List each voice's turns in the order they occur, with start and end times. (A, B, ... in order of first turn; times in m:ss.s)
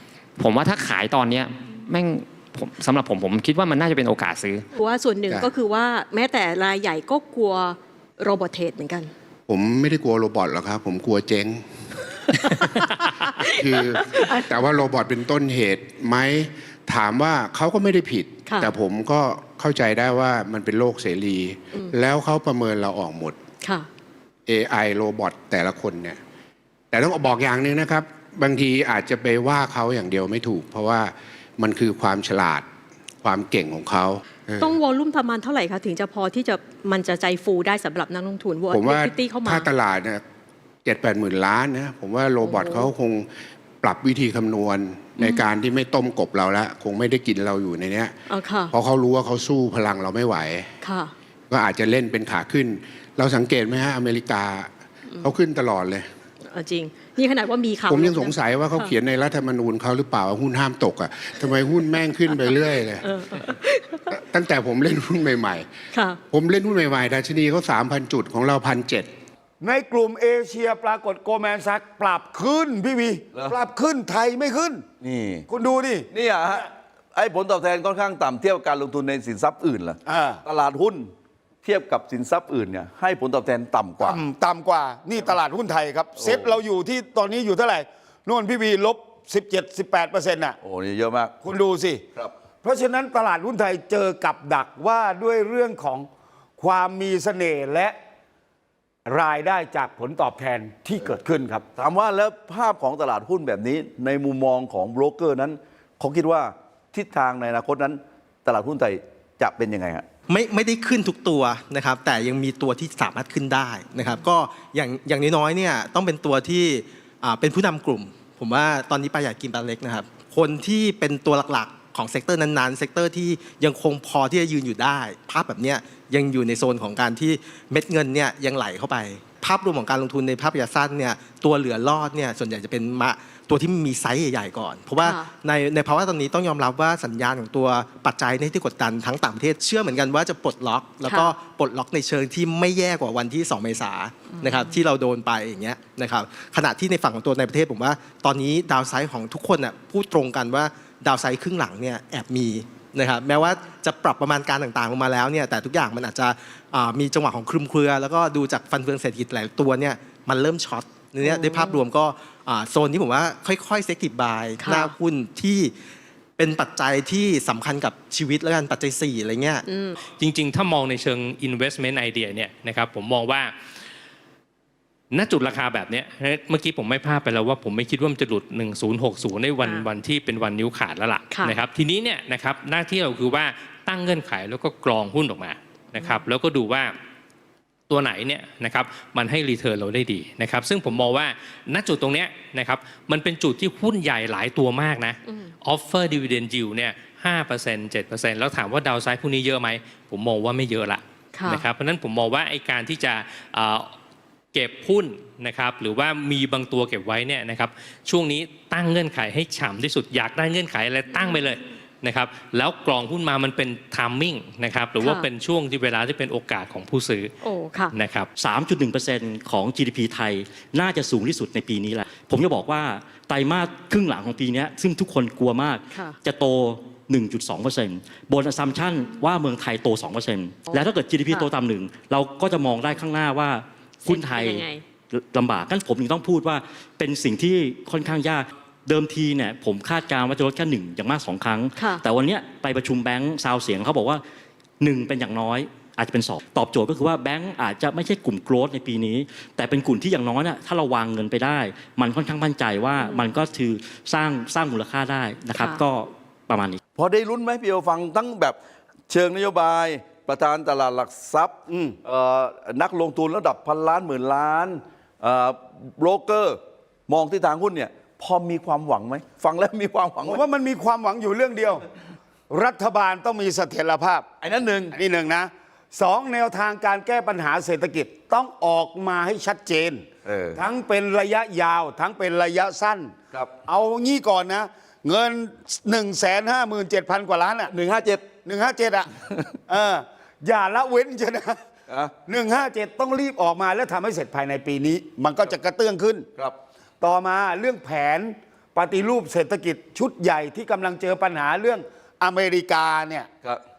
0:00.4-0:04.6 A
0:04.8-0:09.1 B
0:09.5-0:11.6 C
0:12.5-0:14.5 B
0:13.6-0:23.4 C
0:18.4-0:18.7 B
0:23.6-0:23.9 B
0:24.5-0:26.2 C
0:26.9-0:32.6 C
0:33.2-0:34.8 C
0:34.6-0:39.7 B
0:38.7-0:40.2 C
0:40.8-0:43.3 C
0:42.4-0:42.9 B
0:43.8-0:48.2 C
0:48.3-0:48.7 B
0:48.7-0:50.7 C
0:50.8-0:51.1 B
0:51.5-0:54.7 C
0:55.2-0:56.1 C
0:56.4-0:59.0 B
0:57.9-1:03.1 C
1:01.9-1:02.5 B
1:03.0-1:04.1 B
1:04.1-1:05.6 C
1:05.9-1:06.2 B
1:06.3-1:09.1 C
1:09.6-1:14.8 D
1:15.0-1:15.4 E
1:15.5-1:16.6 D
1:16.1-1:21.1 E
1:20.0-1:20.4 D
1:21.6-1:24.2 E
1:24.0-1:30.6 D
1:26.2-1:26.6 E
1:30.6-1:31.3 E
1:31.4-1:32.0 D
1:32.6-1:38.0 D
1:39.0-1:41.6 D
1:41.8-1:50.0 E
1:50.3-2:45.7 F
2:15.0-2:15.3 B
2:21.0-2:21.3 B
2:24.4-2:24.7 B
2:41.2-2:41.8 B
2:44.6-2:44.9 B
2:46.4-2:49.6 F
2:49.7-2:50.0 B
2:50.0-2:53.5 G
2:55.1-3:06.9 G
2:59.6-2:59.9 B
3:01.3-3:01.6 B
3:06.0-3:06.2 B
3:07.9-3:23.9 G
3:21.3-3:21.6 B
3:24.5-3:37.4 G
3:31.1-3:31.5 B
3:35.0-3:35.3 B
3:37.4-3:37.9 B
3:37.9-3:38.3 G
3:38.4-4:04.2 H
3:45.9-3:46.2 B
3:50.7-3:51.5 B
3:54.0-3:54.8 B
4:01.8-4:02.0 B
4:04.8-4:16.8 H
4:13.0-4:13.4 B
4:15.6-4:15.8 B
4:17.0-4:18.6 E
4:19.1-4:30.4 E
4:21.7-4:22.0 D
4:30.2-4:31.8 D
4:32.5-4:34.2 D
4:34.4-4:34.9 E
4:34.9-4:43.1 D
4:40.2-4:40.6 E
4:43.6-4:47.7 D
4:47.7-4:48.3 E
4:48.4-4:49.1 D
4:49.7-4:51.6 D
4:52.3-4:56.2 D
4:57.0-5:03.3 D